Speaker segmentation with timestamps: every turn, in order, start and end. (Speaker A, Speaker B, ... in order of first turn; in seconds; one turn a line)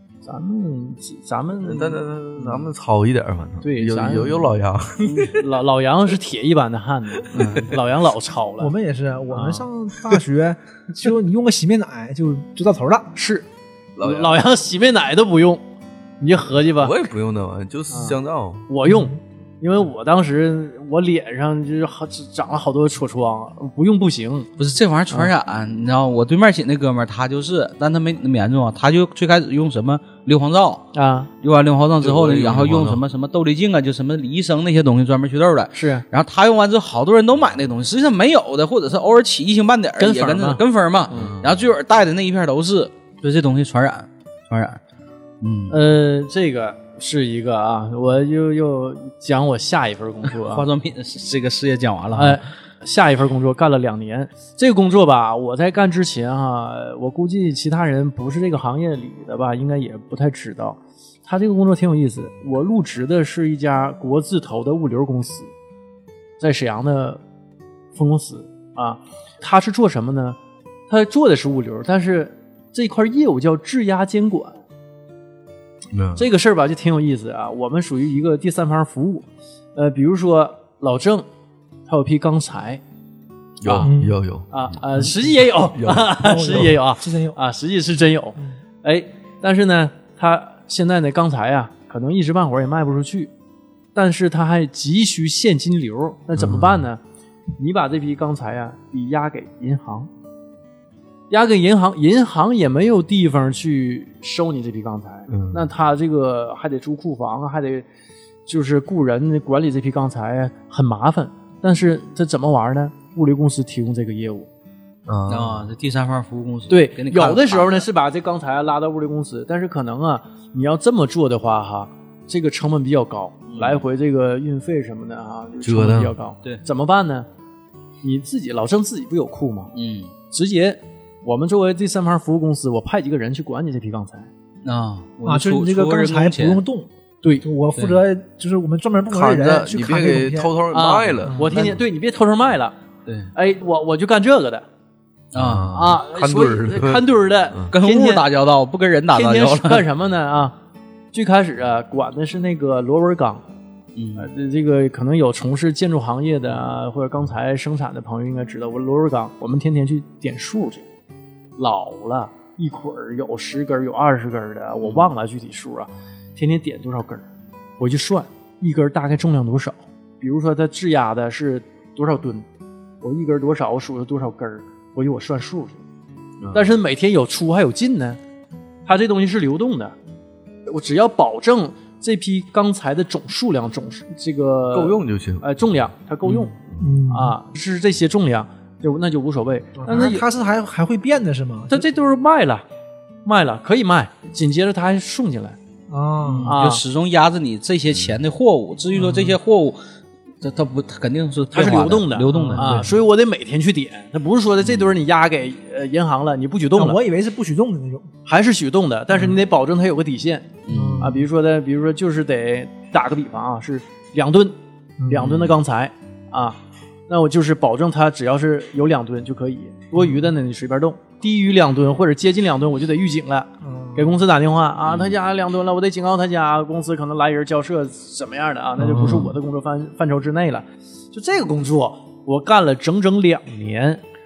Speaker A: 0.2-2.7
Speaker B: 1.6-5.4
Speaker A: 3.6-8.7
Speaker C: 7.3-7.6
Speaker D: 8.6-13.1
Speaker A: 9.3-9.7
Speaker A: 13.1-13.5
Speaker B: 13.9-14.4
Speaker A: 14.0-15.6
Speaker A: 16.2-16.9
Speaker B: 16.8-18.7
Speaker A: 17.9-24.5
Speaker D: 18.8-19.2
Speaker C: 24.6-30.9
Speaker A: 30.9-31.3
Speaker C: 31.4-44.8
Speaker B: 32.0-33.0
Speaker A: 35.7-36.0
Speaker A: 40.0-40.6
Speaker B: 41.1-41.6
Speaker C: 45.4-45.8
Speaker A: 45.7-50.6
Speaker C: 50.4-52.4
Speaker A: 52.1-65.5
Speaker A: 66.4-67.2
Speaker A: 67.9-70.4
Speaker A: 70.9-74.6
Speaker B: 75.9-76.2
Speaker A: 76.2-81.2
Speaker A: 81.9-82.8
Speaker B: 83.6-85.1
Speaker A: 83.6-84.0
Speaker D: 83.8-84.2
Speaker A: 84.5-93.3
Speaker B: 85.7-86.1
Speaker D: 86.1-87.4
Speaker A: 93.9-97.0
Speaker B: 96.4-96.8
Speaker A: 97.6-100.1
Speaker A: 101.3-107.8
Speaker B: 105.3-105.7
Speaker A: 108.5-114.5
Speaker B: 115.0-115.7
Speaker C: 115.3-117.9
Speaker A: 116.7-127.3
Speaker C: 123.5-123.8
Speaker B: 125.6-126.1
Speaker A: 128.0-129.7
Speaker C: 129.7-130.1
Speaker A: 130.3-134.3
Speaker C: 134.6-136.6
Speaker D: 135.2-136.9
Speaker D: 137.4-140.5
Speaker C: 137.7-138.0
Speaker B: 139.1-141.5
Speaker A: 140.7-142.8
Speaker D: 141.3-141.7
Speaker C: 143.1-143.3
Speaker A: 143.3-144.6
Speaker C: 145.3-145.7
Speaker B: 145.3-147.7
Speaker A: 145.7-148.2
Speaker C: 147.7-149.8
Speaker A: 149.1-150.5
Speaker A: 151.1-153.4
Speaker C: 153.9-154.3
Speaker A: 154.2-160.8
Speaker A: 161.6-167.2
Speaker C: 164.8-165.1
Speaker A: 167.8-172.4
Speaker A: 173.0-175.8
Speaker B: 176.4-176.8
Speaker A: 176.5-178.2
Speaker A: 178.8-179.9
Speaker A: 180.7-186.5
Speaker B: 184.7-185.4
Speaker B: 186.7-187.0
Speaker D: 186.8-187.3
Speaker A: 187.1-190.2
Speaker D: 189.8-191.8
Speaker A: 191.7-192.6
Speaker A: 193.2-195.6
Speaker D: 195.9-196.5
Speaker C: 196.2-199.8
Speaker A: 196.4-196.8
Speaker D: 198.9-199.4
Speaker C: 200.4-202.9
Speaker A: 201.5-207.0
Speaker D: 202.3-202.8
Speaker D: 206.7-208.1
Speaker A: 208.2-214.6
Speaker C: 210.6-211.2
Speaker D: 210.7-211.2
Speaker A: 215.1-216.6
Speaker C: 215.2-215.6
Speaker A: 217.1-234.0
Speaker D: 223.6-224.1
Speaker C: 224.9-225.1